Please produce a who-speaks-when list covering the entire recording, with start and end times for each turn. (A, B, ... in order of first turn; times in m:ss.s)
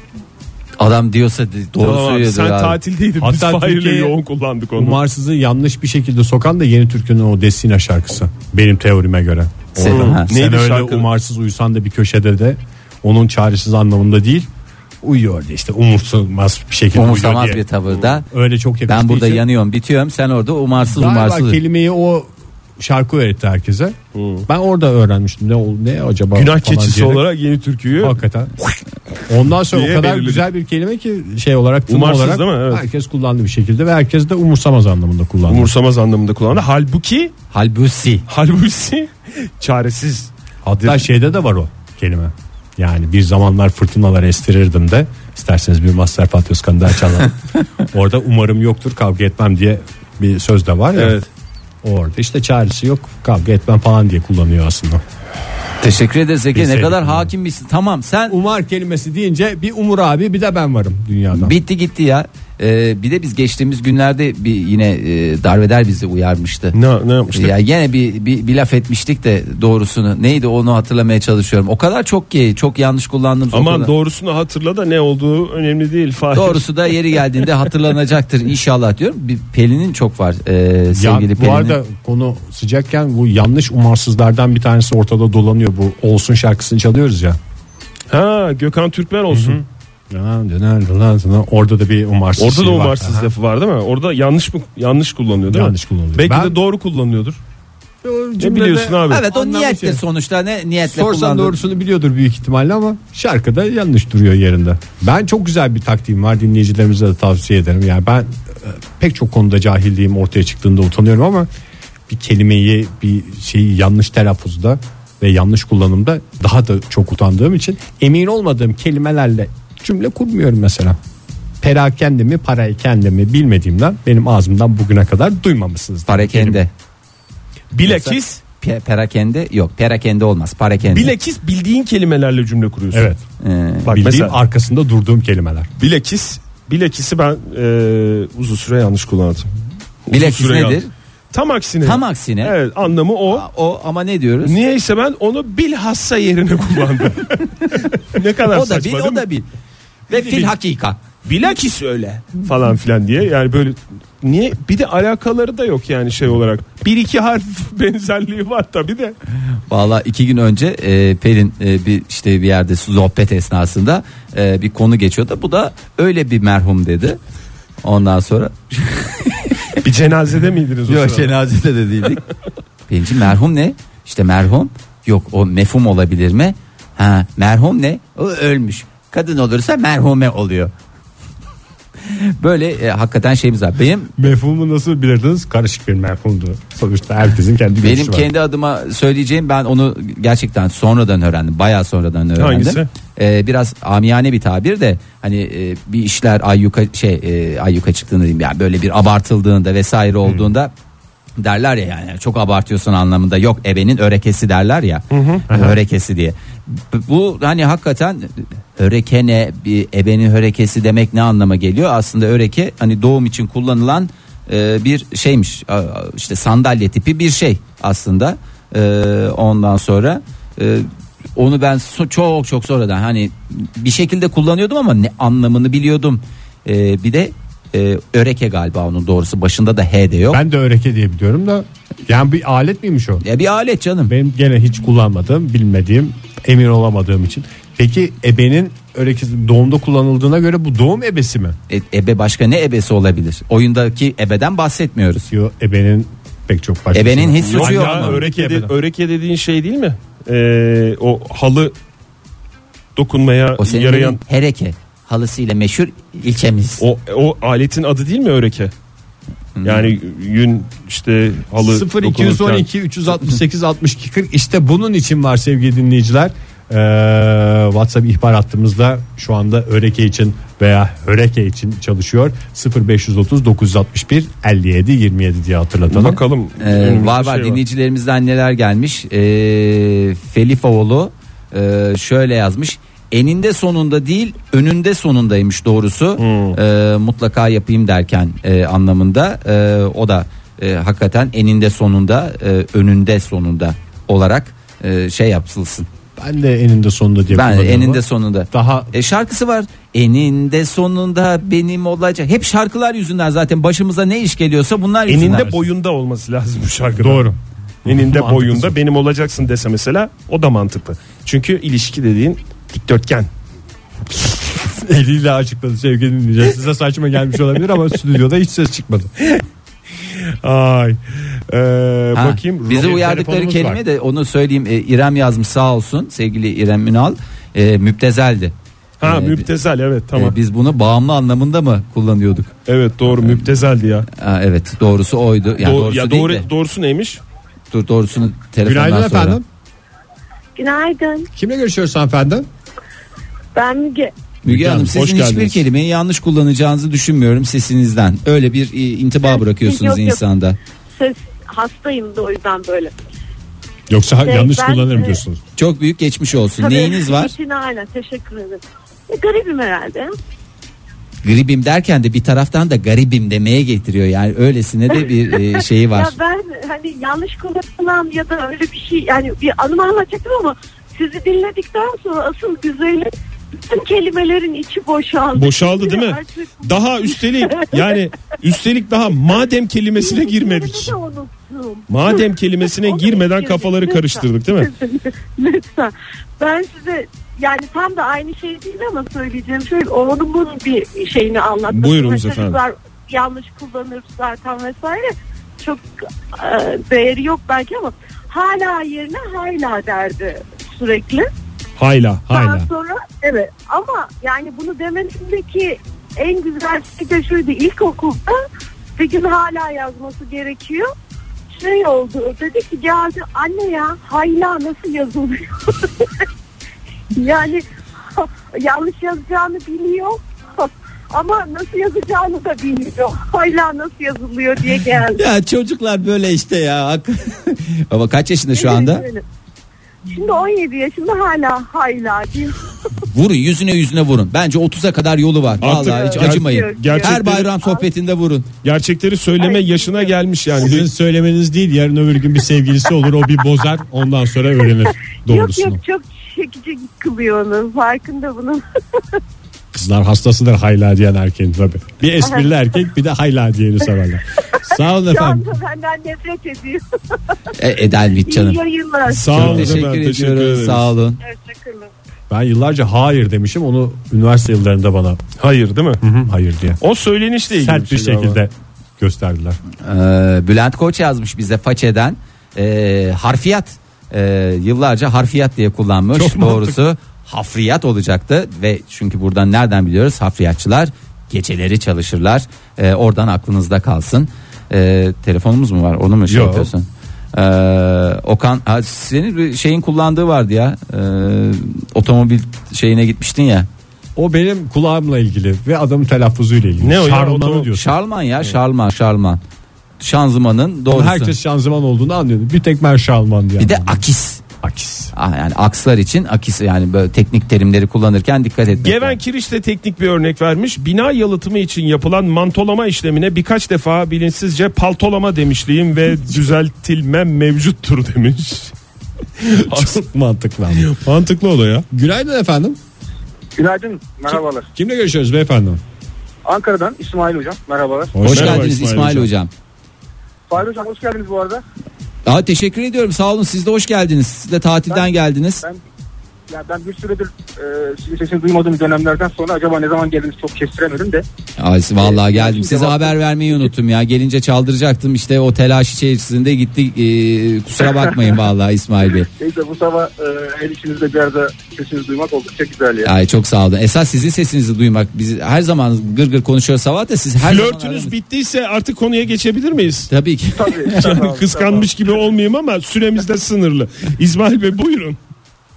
0:00.8-0:02.8 A
0:01.8-0:05.0 B
0:03.2-0:04.1 C
0:04.8-0:14.5 C
0:09.8-0:10.3 A
0:09.8-0:11.1 B
0:15.0-0:17.6 C
0:16.9-0:18.2 A
0:18.3-0:19.4 C
0:18.9-0:21.6 A
0:20.8-0:27.3 C
0:24.1-0:24.4 B
0:26.3-0:28.2 B
0:28.0-0:28.5 C
0:29.3-0:35.7 C
0:29.7-0:30.4 B
0:31.9-0:32.8 B
0:35.5-0:37.3 B
0:37.5-0:38.2 A
0:38.3-0:40.3 B
0:40.6-0:51.2 C
0:50.9-0:51.3 B
0:51.8-0:55.0 C
0:55.8-0:58.4 A
0:56.5-0:57.3 C
0:58.3-1:01.6 C
1:01.3-1:06.8 A
1:06.7-1:07.5 B
1:07.3-1:13.9 A
1:13.5-1:17.4 B
1:16.3-1:21.8 A
1:20.9-1:27.4 C
1:28.1-1:29.6 B
1:29.3-1:33.3 C
1:32.4-1:37.4 B
1:35.5-1:36.6 C
1:38.0-1:40.0 C
1:38.4-1:39.2 B
1:39.1-1:41.6 A
1:40.8-1:51.5 C
1:52.1-2:01.0 C
2:01.6-2:06.6 C
2:06.1-2:06.7 A
2:07.7-2:08.4 B
2:07.8-2:11.1 A
2:10.8-2:13.1 B
2:12.9-2:13.2 C
2:13.4-2:14.0 A
2:13.8-2:14.4 B
2:13.9-2:15.7 C
2:15.8-2:19.5 B
2:20.1-2:20.8 B
2:20.1-2:20.9 A
2:21.3-2:23.5 B
2:21.8-2:22.5 A
2:23.3-2:24.6 A
2:24.4-2:29.2 B
2:28.5-2:29.4 A
2:30.1-2:31.0 A
2:30.1-2:30.5 C
2:31.2-2:39.1 B
2:39.7-2:47.2 A
2:47.8-2:49.8 A
2:49.8-2:51.3 B
2:50.9-2:52.2 A
2:52.9-3:00.7 A
3:02.0-3:04.2 A
3:04.2-3:08.3 C
3:07.8-3:20.7 A
3:12.4-3:12.9 B
3:21.4-3:50.4 A
3:25.1-3:25.4 B
3:25.5-3:25.8 C
3:50.3-3:53.2 C
3:53.2-3:54.1 A
3:54.1-4:01.6 C
4:01.7-4:05.3 A
4:05.3-4:08.7 C
4:06.9-4:08.2 A
4:07.4-4:11.7 B
4:13.0-4:14.2 B
4:13.6-4:16.8 A
4:16.8-4:18.7 B
4:19.6-4:19.9 A
4:19.6-4:22.7 B
4:21.6-4:36.2 C
4:35.9-4:37.6 B
4:36.6-4:55.9 A
4:46.2-4:46.6 B
4:56.2-4:58.9 C
4:57.3-5:05.5 A
5:05.1-5:07.3 B
5:07.0-5:08.7 C
5:07.8-5:13.3 B
5:14.2-5:19.1 C
5:20.4-5:23.0 B
5:22.1-5:29.5 A
5:22.7-5:23.8 C
5:29.0-5:30.3 B
5:30.1-5:32.5 A
5:32.7-5:34.1 B
5:34.1-5:36.4 A
5:35.6-5:37.2 B
5:37.7-5:39.4 A
5:38.6-5:39.4 C
5:40.6-5:41.3 D
5:41.3-5:42.4 C
5:43.5-5:44.1 D
5:44.4-5:50.6 A
5:44.5-5:45.6 B
5:49.2-5:50.2 D
5:51.0-5:52.9 D
5:53.9-5:55.4 C
5:54.2-5:55.2 D
5:55.6-5:57.3 A
5:56.6-6:00.2 D
6:01.2-6:06.2 A
6:05.6-6:13.1 D
6:13.7-6:18.0 D
6:15.3-6:20.9 B
6:20.0-6:41.3 D
6:21.9-6:24.7 B
6:31.7-6:32.6 B
6:41.8-6:42.3 B
6:42.3-6:42.7 C
6:42.3-6:48.4 D
6:49.0-6:50.9 D
6:51.5-6:56.1 D
6:57.1-7:05.2 D
7:05.1-7:09.0 A
7:08.5-7:09.2 D
7:10.0-7:12.6 D
7:13.1-7:18.5 A
7:15.6-7:17.8 D
7:15.6-7:17.5 B
7:18.6-7:20.9 B
7:19.4-7:20.2 D
7:20.6-7:25.8 C
7:25.3-7:29.0 D
7:29.7-7:35.5 C
7:32.2-7:32.5 D
7:34.6-7:36.8 D
7:37.6-7:38.6 A
7:37.8-7:39.3 D
7:39.1-7:40.9 B
7:39.3-7:41.2 A
7:39.4-7:39.8 C
7:41.2-7:41.9 D
7:42.3-7:45.2 C
7:45.4-7:46.0 B
7:46.0-7:46.8 C
7:46.8-7:48.4 B
7:47.5-7:49.6 C
7:49.8-8:13.7 A
7:56.1-7:56.8 C
8:06.3-8:06.7 C
8:14.2-8:17.8 C
8:16.8-8:17.7 B
8:17.7-8:19.4 A
8:20.0-8:21.3 A
8:20.9-8:24.0 C
8:23.6-8:24.4 A
8:24.6-8:25.1 C
8:25.1-8:29.2 A
8:28.8-8:38.7 B
8:39.4-8:40.0 B
8:39.6-8:41.0 C
8:40.8-8:41.8 B
8:41.9-8:42.8 C
8:43.6-8:44.7 E
8:44.7-8:45.8 C
8:46.4-8:48.2 E
8:48.1-8:48.8 C
8:48.2-8:49.5 A
8:48.3-8:49.3 B
8:50.5-8:51.6 E
8:52.2-8:55.6 A
8:54.9-8:55.8 E
8:56.5-9:01.2 E
9:01.6-9:09.3 A
9:02.0-9:03.7 E
9:09.4-9:13.1 E
9:13.0-9:18.1 A
9:17.4-9:20.1 B
9:20.1-9:21.1 A
9:20.5-9:21.9 E
9:20.9-9:25.2 B